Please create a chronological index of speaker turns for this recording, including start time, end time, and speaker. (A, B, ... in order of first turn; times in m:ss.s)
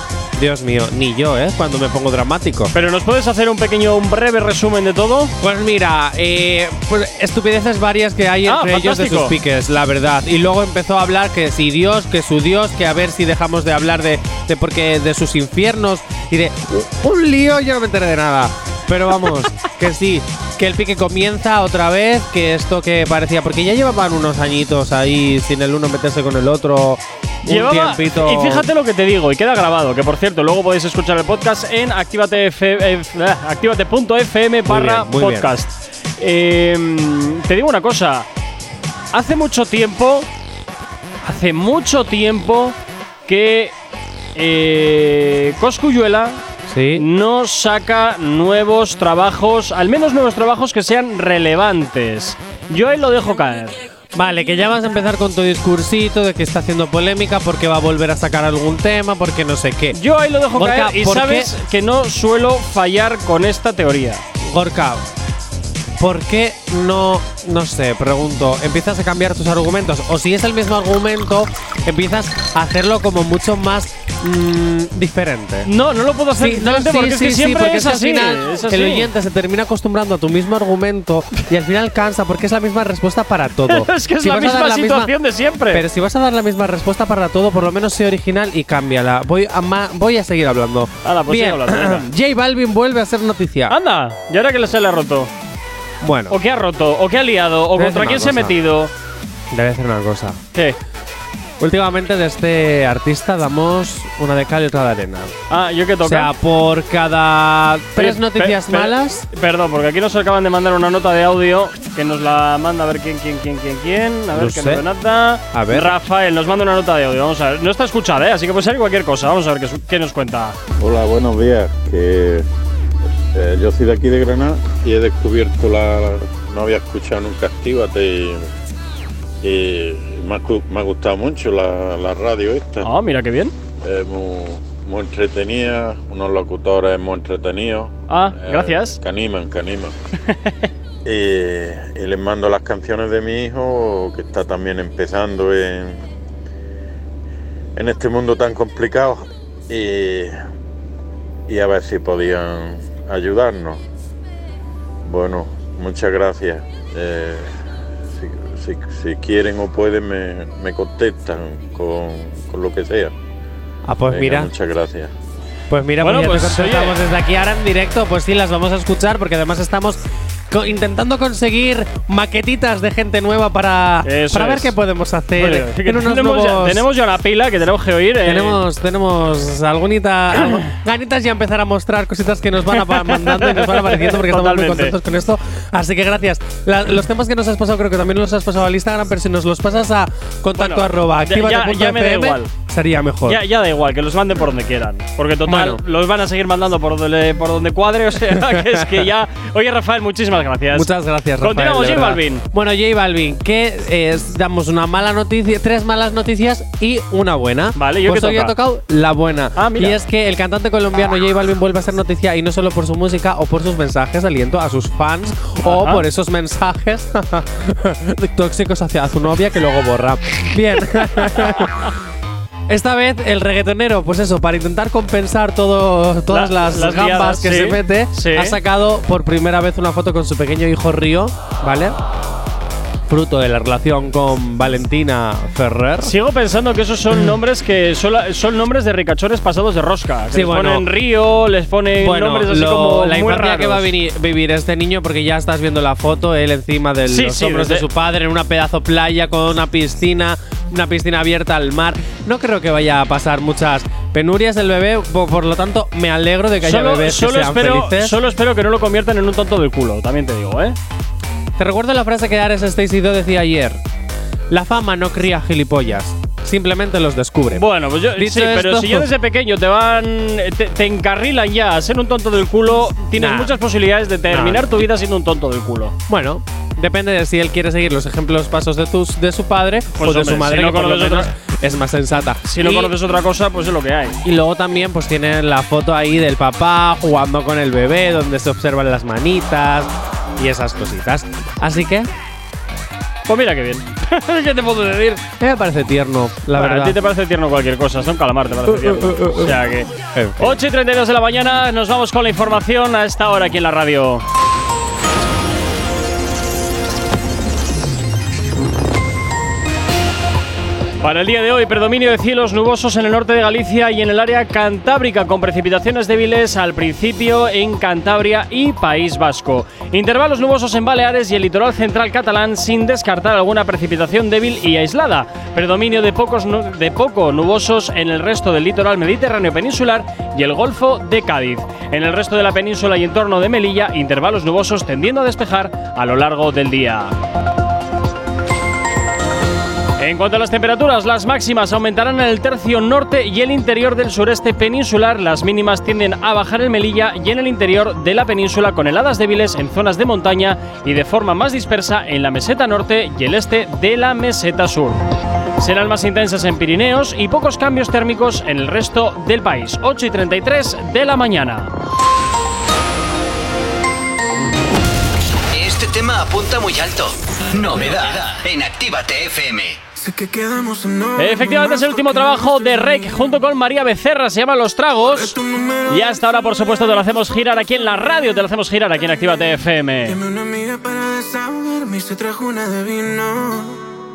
0:00.4-0:02.7 A
0:02.7-0:05.3 B
0:05.4-0:28.6 A
0:08.5-0:09.3 B
0:27.5-0:38.3 B
0:34.7-0:35.5 A
0:39.1-0:40.3 B
0:41.2-0:42.8 B
0:43.3-0:43.7 B
0:44.4-0:46.4 B
0:46.7-0:47.0 A
0:47.0-0:53.8 B
0:54.1-1:00.0 A
0:59.9-1:04.2 B
1:00.5-1:01.5 A
1:04.4-1:05.0 A
1:06.0-1:15.7 A
1:15.7-1:19.1 B
1:16.4-1:25.1 A
1:23.7-1:25.8 B
1:25.7-1:33.8 A
1:31.0-1:32.1 B
1:33.7-1:35.3 B
1:36.0-1:36.4 A
1:36.3-1:38.9 B
1:37.8-1:38.6 A
1:39.5-1:40.4 A
1:41.6-1:45.4 A
1:45.5-1:46.3 B
1:46.0-1:49.2 A
1:48.0-2:00.6 B
1:54.3-1:54.8 A
1:55.5-1:56.0 A
2:00.8-2:02.5 C
2:03.3-2:08.5 C
2:09.4-2:12.9 C
2:12.8-2:13.5 B
2:13.8-2:19.9 C
2:18.1-2:19.0 B
2:21.0-2:26.0 C
2:27.8-2:30.4 C
2:31.5-2:33.8 C
2:35.0-2:37.6 C
2:38.1-2:43.1 C
2:43.9-2:44.5 A
2:44.1-2:45.1 C
2:45.7-2:50.0 A
2:46.0-2:47.0 B
2:50.5-2:56.8 A
2:54.0-2:54.7 B
2:55.4-2:58.6 B
2:58.2-3:13.4 A
3:02.8-3:05.0 B
3:10.6-3:12.5 B
3:13.3-3:20.9 B
3:15.5-3:15.8 A
3:18.3-3:19.0 A
3:20.7-3:41.7 A
3:21.4-3:22.4 B
3:27.8-3:28.6 B
3:29.6-3:30.0 B
3:35.6-3:36.0 B
3:42.7-3:52.0 A
3:46.3-3:48.6 B
3:53.1-3:56.1 A
3:56.0-4:03.9 B
3:57.1-3:57.4 A
4:00.3-4:00.9 A
4:02.0-4:18.2 A
4:07.1-4:07.8 B
4:16.6-4:20.8 B
4:21.6-4:23.8 A
4:24.5-4:29.1 A
4:27.6-4:36.0 B
4:33.2-4:33.5 A
4:34.3-4:34.8 A
4:36.1-4:42.9 A
4:40.0-4:41.3 B
4:42.4-4:44.2 B
4:44.2-4:52.1 A
4:53.3-4:55.2 B
4:55.4-4:57.0 A
4:56.6-4:59.9 B
4:58.7-4:59.6 A
5:00.1-5:00.6 A
5:00.4-5:04.2 B
5:11.0-5:37.2 B
5:40.0-5:55.0 B
5:55.6-6:01.7 B
6:05.5-6:09.8 D
6:10.0-6:13.0 E
6:11.2-6:15.4 B
6:15.1-6:16.2 E
6:15.9-6:20.2 B
6:20.1-6:23.8 E